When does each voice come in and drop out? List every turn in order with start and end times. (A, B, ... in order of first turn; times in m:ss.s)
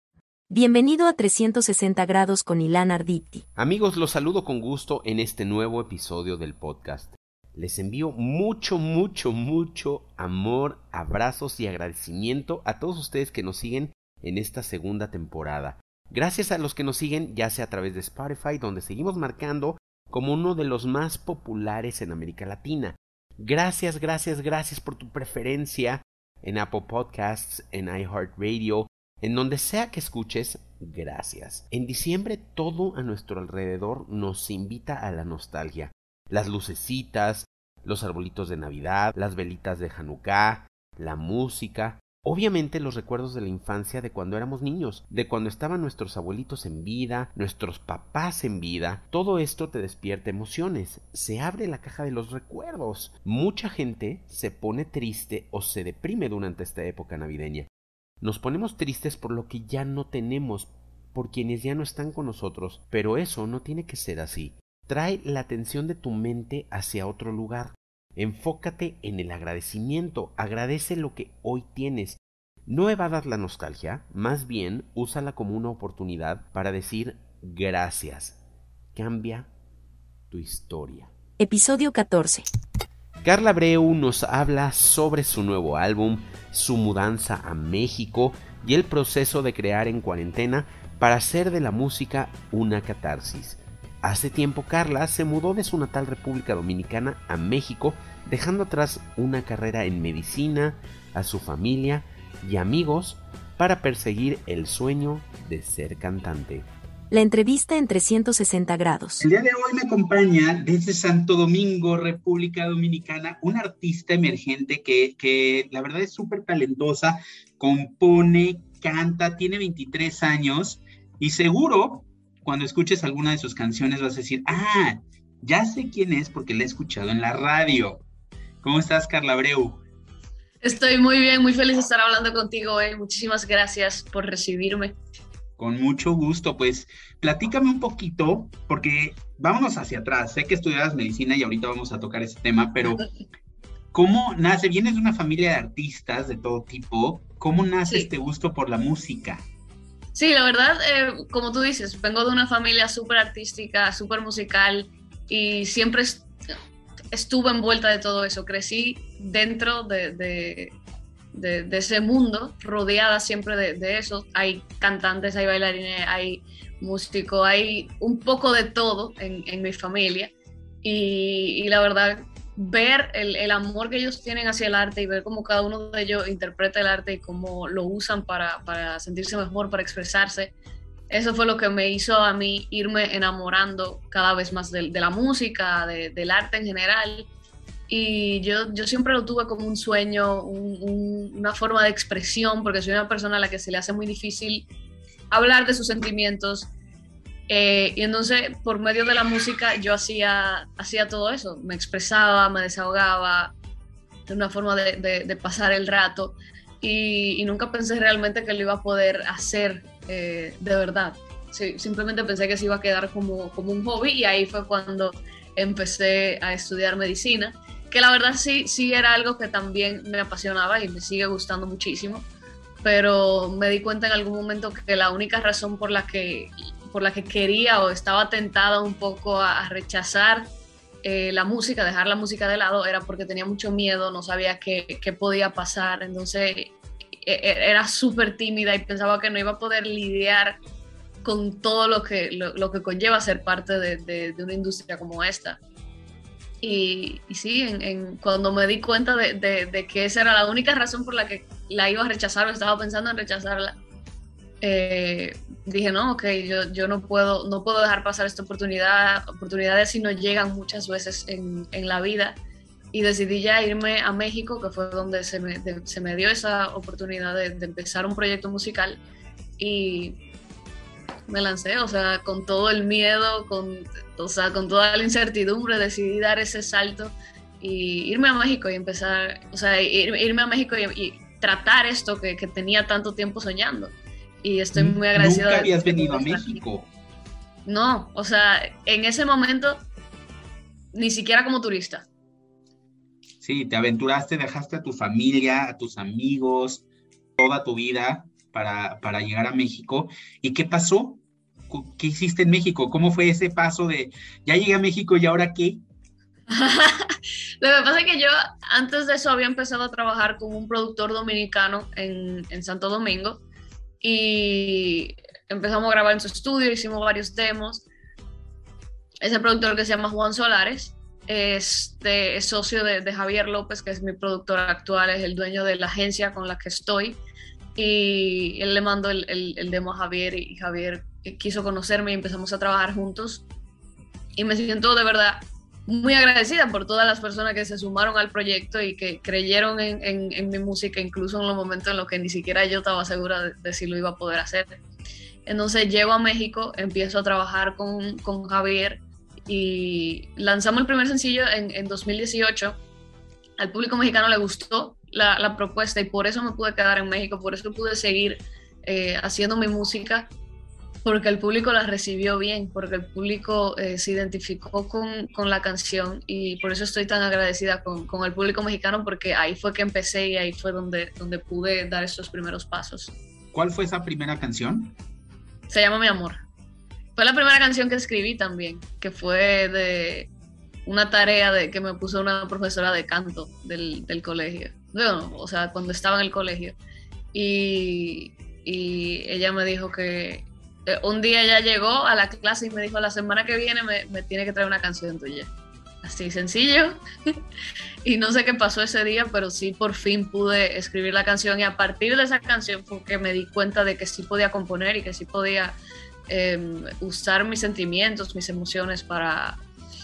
0:00.5-0:03.4 A
0:03.6-0:57.7 B
0:58.2-1:18.4 B
1:19.0-1:19.5 B
1:20.3-1:21.1 B
1:21.4-1:22.5 A
1:23.2-1:46.7 B
1:47.1-1:49.3 A
1:49.2-2:08.0 C
2:08.6-2:09.8 C
2:10.6-2:15.0 D
2:15.6-2:23.0 C
2:23.9-2:29.4 C
2:30.2-2:36.3 D
2:37.1-2:40.8 D
2:41.3-3:00.5 D
3:01.1-3:07.3 D
3:07.9-3:14.7 D
3:15.3-3:16.7 D
3:17.5-3:23.5 D
3:24.3-3:42.3 D
3:42.8-3:50.5 D
3:51.0-4:00.6 D
4:01.2-4:05.6 D
4:06.6-4:13.8 D
4:14.6-4:22.4 D
4:22.9-4:29.0 D
4:29.6-4:30.2 D
4:31.3-4:46.6 D
4:44.8-4:46.9 C
4:47.7-4:49.8 D
4:50.9-4:52.1 D
4:53.4-4:56.8 C
4:57.4-5:05.8 C
5:06.5-5:13.4 D
5:14.0-5:17.8 D
5:19.2-5:27.2 D
5:27.8-5:33.4 D
5:34.4-5:44.8 D
5:45.5-5:52.8 D
5:53.6-6:00.3 D
6:01.0-6:13.1 D
6:13.5-6:15.0 C
6:15.7-6:16.4 D
6:17.2-6:20.3 D
6:20.9-6:26.8 D
6:27.3-6:35.5 D
6:36.0-6:37.0 D
6:38.0-6:49.6 D